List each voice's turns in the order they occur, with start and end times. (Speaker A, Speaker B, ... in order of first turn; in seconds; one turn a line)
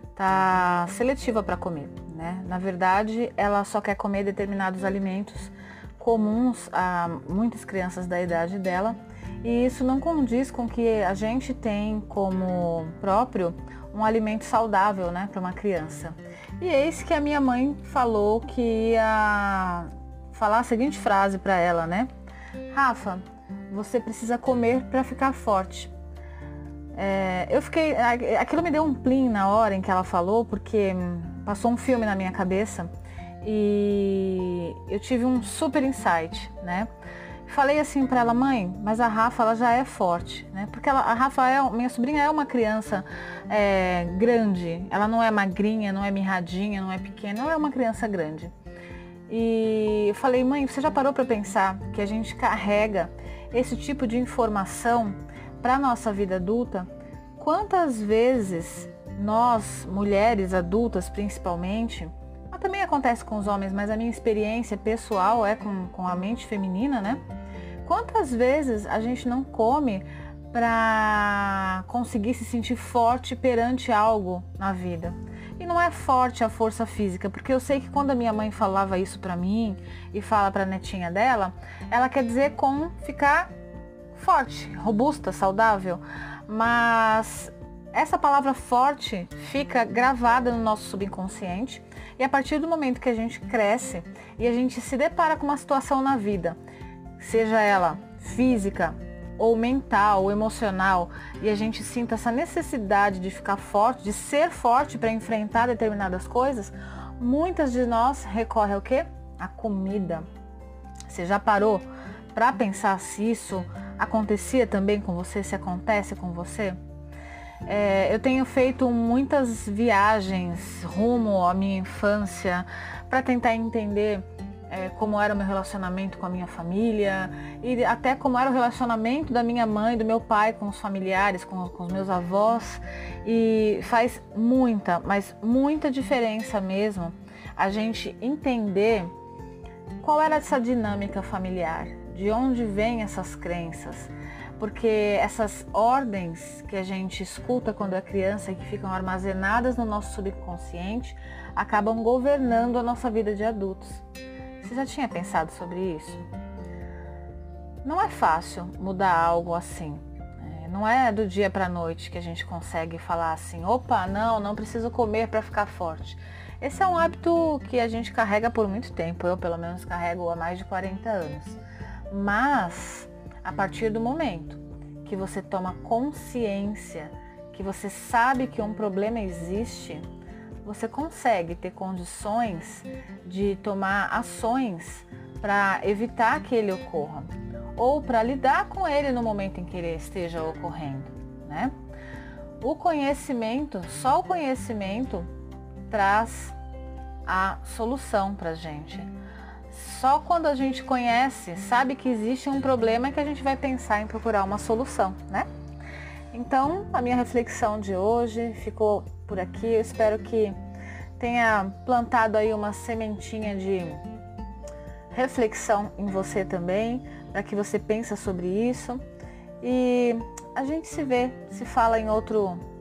Speaker A: 0.1-22.1
Speaker A: 22.7-25.9
Speaker A: 26.9-32.9
Speaker A: 33.4-36.9
Speaker A: 37.5-48.5
Speaker A: 49.3-67.2
Speaker A: 67.8-83.5
Speaker A: 84.1-96.6
Speaker A: 97.2-110.2
Speaker A: 111.1-116.8
Speaker A: 117.7-139.1
Speaker A: 140.0-154.0
Speaker A: 154.6-156.2
Speaker A: 157.8-171.6
Speaker A: 172.1-180.1
Speaker A: 180.6-191.7
Speaker A: 192.6-195.3
Speaker A: 195.9-196.6
Speaker A: 197.2-199.1
Speaker A: 199.7-205.5
Speaker A: 206.3-210.6
Speaker A: 211.2-214.0
Speaker A: 215.1-219.0
Speaker A: 219.6-222.6